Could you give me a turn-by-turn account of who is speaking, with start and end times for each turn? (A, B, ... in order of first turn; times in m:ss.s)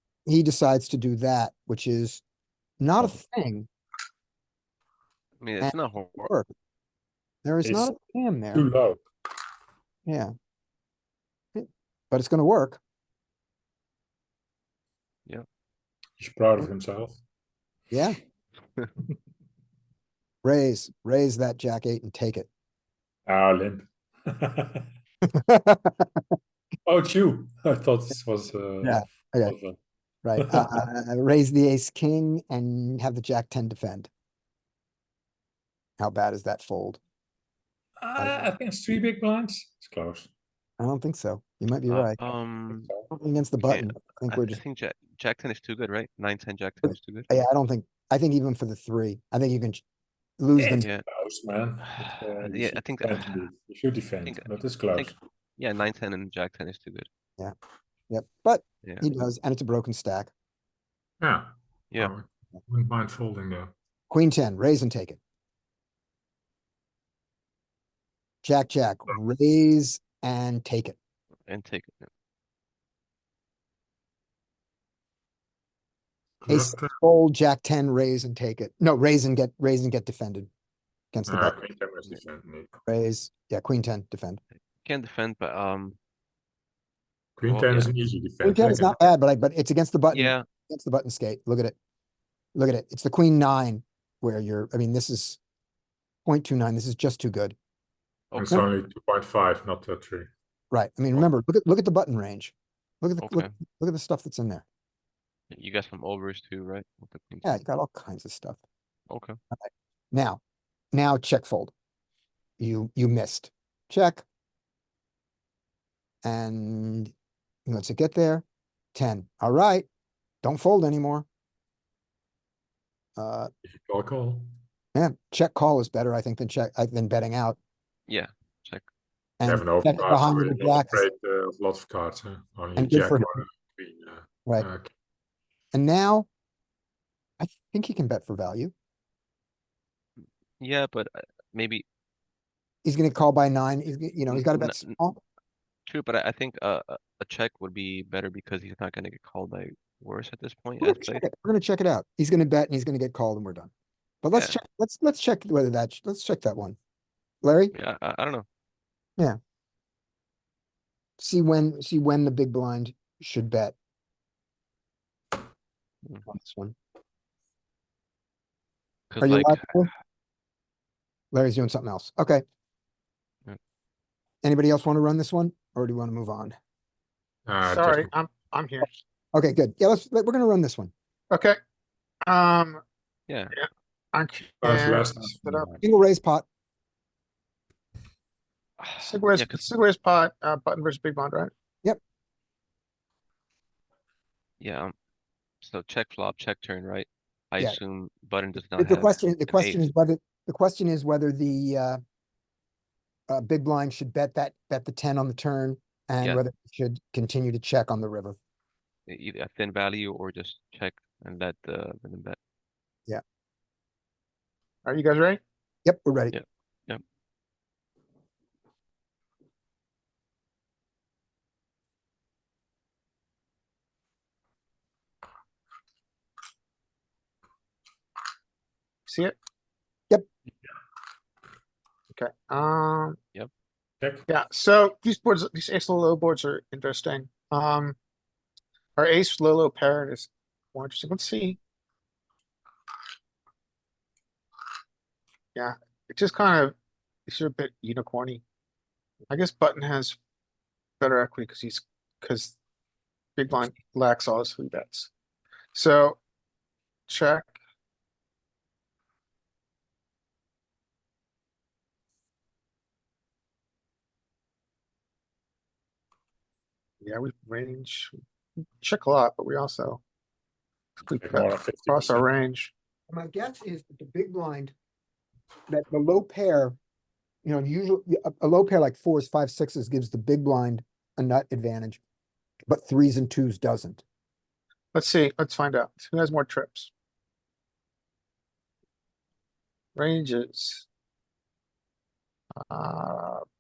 0:00.3-0:02.2 A
0:02.8-0:03.7 A
0:05.4-0:06.3 B
0:05.6-0:06.5 A
0:07.4-0:08.7 A
0:07.6-0:07.9 C
0:08.5-0:09.0 C
0:10.1-0:10.3 A
0:11.6-0:12.8 A
0:16.2-0:17.2 C
0:17.9-0:18.2 A
0:20.4-0:22.5 A
0:23.3-0:24.9 C
0:25.2-0:26.3 A
0:26.8-0:29.8 C
0:28.8-0:29.5 A
0:30.2-0:34.1 A
0:30.4-0:30.7 C
0:36.0-0:37.0 A
0:38.0-0:40.3 C
0:40.8-0:42.2 A
0:41.9-0:42.9 B
0:43.1-0:44.6 A
0:43.6-0:47.3 B
0:46.8-0:49.8 A
0:50.4-0:50.9 A
0:50.6-0:55.2 C
0:50.7-0:51.1 B
0:51.9-0:53.4 B
0:54.2-0:57.1 B
0:58.1-1:00.3 A
1:01.2-1:03.7 C
1:04.1-1:05.2 A
1:08.4-1:11.0 A
1:11.5-1:12.1 B
1:16.4-1:16.9 C
1:16.5-1:20.5 A
1:21.1-1:21.6 A
1:21.3-1:22.8 C
1:22.9-1:24.4 A
1:24.8-1:26.0 B
1:27.4-1:29.0 C
1:27.5-1:27.9 B
1:28.4-1:31.8 A
1:30.1-1:30.4 B
1:32.6-1:35.4 A
1:36.3-1:37.6 A
1:38.3-1:38.7 B
1:38.4-1:40.3 C
1:40.7-1:44.6 A
1:43.2-1:43.5 B
1:45.5-1:47.6 B
1:47.4-1:48.6 A
1:49.1-1:49.4 B
1:49.6-1:50.4 A
1:50.9-1:51.7 A
1:52.6-1:54.2 A
1:56.2-1:57.1 A
1:57.7-1:59.9 A
2:00.4-2:01.3 A
2:03.2-2:03.5 A
2:03.6-2:04.5 C
2:05.0-2:07.6 A
2:08.1-2:08.8 B
2:09.4-2:11.0 A
2:09.4-2:14.9 C
2:12.8-2:13.3 A
2:15.7-2:16.3 A
2:17.4-2:18.7 A
2:20.2-2:21.8 B
2:22.8-2:25.2 A
2:24.3-2:25.0 B
2:25.9-2:31.2 B
2:30.8-2:33.7 A
2:34.2-2:36.8 A
2:37.4-2:37.8 A
2:37.7-2:38.5 B
2:41.2-2:43.8 A
2:46.3-2:46.8 A
2:49.1-2:49.9 B
2:49.2-2:49.9 A
2:51.3-2:52.4 A
2:54.4-2:56.6 A
2:57.5-2:58.1 C
2:57.6-2:58.9 D
2:59.3-3:00.9 A
3:01.3-3:01.6 D
3:02.3-3:02.8 D
3:03.3-3:03.5 B
3:03.5-3:05.7 D
3:04.6-3:05.8 C
3:05.8-3:06.5 A
3:08.8-3:09.6 B
3:09.0-3:11.5 D
3:14.6-3:14.9 B
3:15.6-3:19.8 B
3:18.8-3:22.0 A
3:23.3-3:28.4 A
3:29.1-3:32.4 B
3:34.8-3:35.4 D
3:35.8-3:36.4 A
3:36.3-3:37.0 B
3:49.1-3:49.4 D
3:52.1-3:53.2 D
3:54.3-3:58.0 D
3:59.0-4:01.6 D
4:05.6-4:06.8 D
4:07.3-4:08.4 D
4:09.3-4:10.2 D
4:11.0-4:12.6 D
4:13.4-4:15.1 D
4:15.7-4:16.2 D
4:17.1-4:17.6 D
4:27.0-4:28.2 D
4:28.8-4:30.0 D
4:31.0-4:32.7 D
4:31.1-4:32.3 C
4:33.1-4:34.7 A
4:35.7-4:36.8 A
4:37.4-4:42.0 A
4:42.7-4:44.0 A
4:44.9-4:46.9 D
4:50.0-4:50.9 D
4:52.7-4:53.4 D